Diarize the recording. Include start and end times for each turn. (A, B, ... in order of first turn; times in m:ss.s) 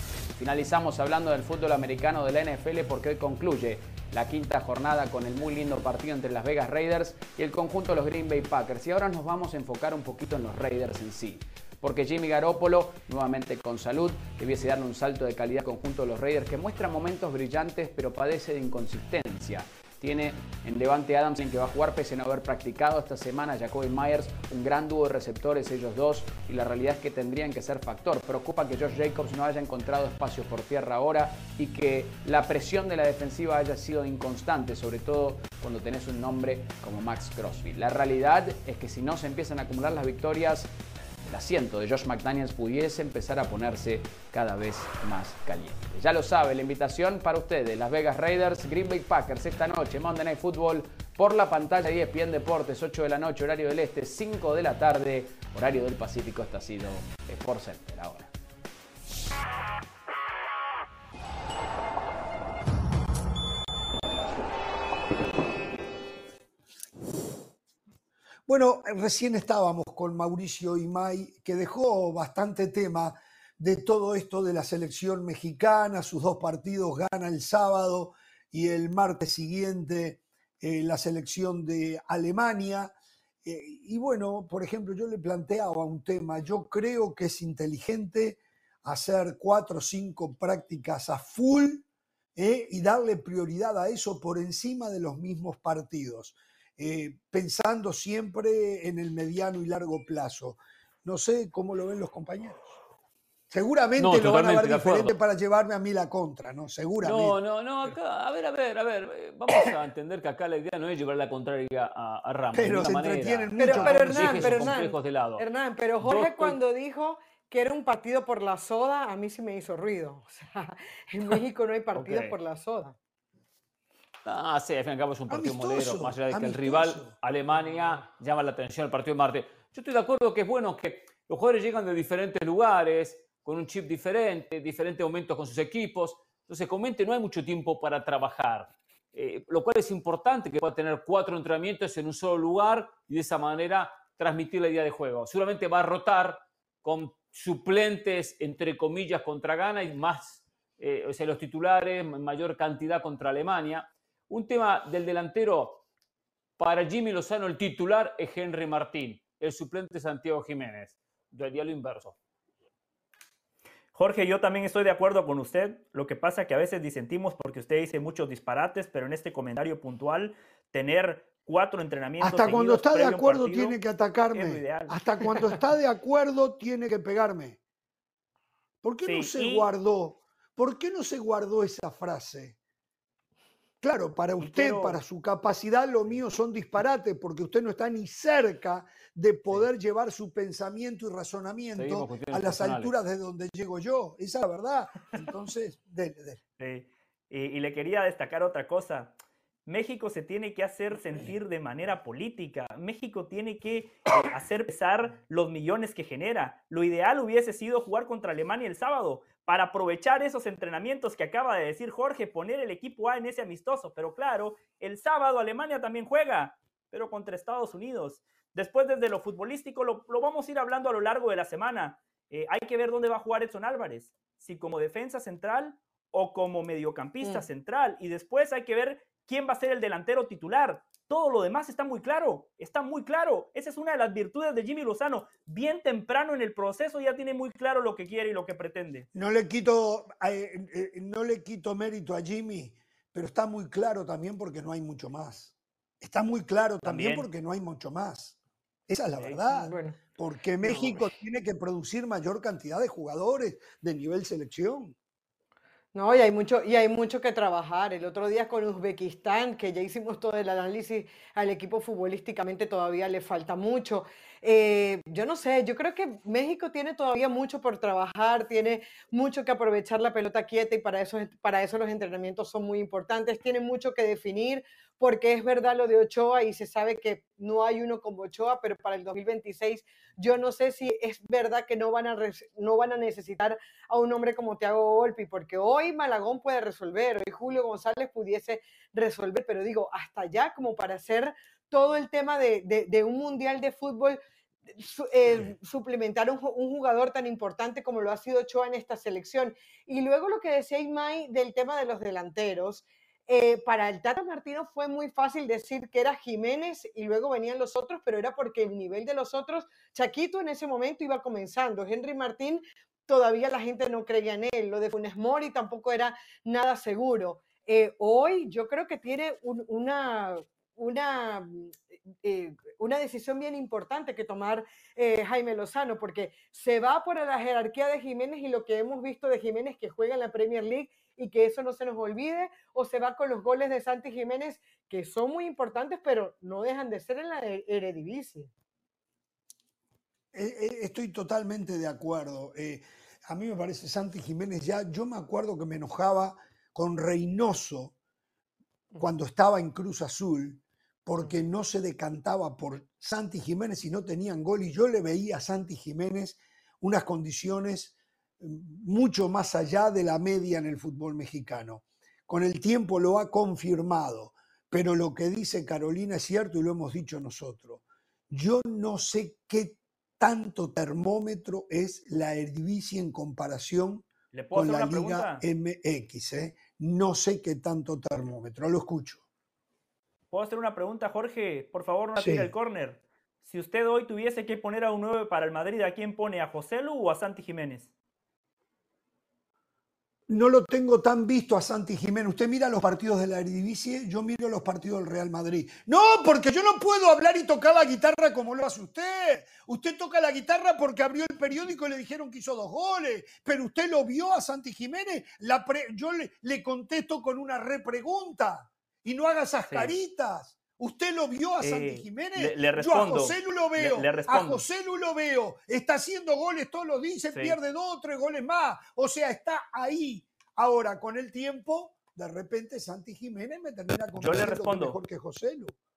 0:00.4-0:40.7 A
0:41.2-0:58.3 A
1:08.5-1:31.8 B
1:32.4-1:42.8 B
1:43.5-1:48.0 B
1:44.0-1:45.2 C
1:47.0-1:55.4 C
1:52.5-1:54.8 B
1:53.6-2:03.0 D
1:56.0-1:56.6 C
2:01.9-2:02.4 C
2:04.2-2:35.8 C
2:05.3-2:07.2 B
2:36.6-2:42.2 C
2:43.9-2:53.8 E
2:52.2-2:57.6 B
2:54.3-2:55.0 E
2:58.8-3:02.6 B
2:59.0-2:59.7 E
3:03.8-3:16.4 B
3:04.4-3:05.0 E
3:11.7-3:12.9 C
3:16.6-3:19.1 E
3:19.6-3:59.1 E
3:59.1-4:08.4 B
4:06.8-4:07.3 E
4:08.9-4:15.0 B
4:09.5-4:10.0 D
4:10.6-4:11.1 D
4:15.9-4:54.2 D
4:54.7-5:38.5 D
5:40.3-5:47.9 B
5:49.0-6:19.2 B
6:14.3-6:15.4 E
6:20.3-6:27.9 E
6:22.2-6:22.5 B
6:30.3-7:05.8 B
6:49.7-6:49.9 E
6:51.6-6:54.6 E
6:57.3-6:57.6 E
7:04.2-7:05.0 E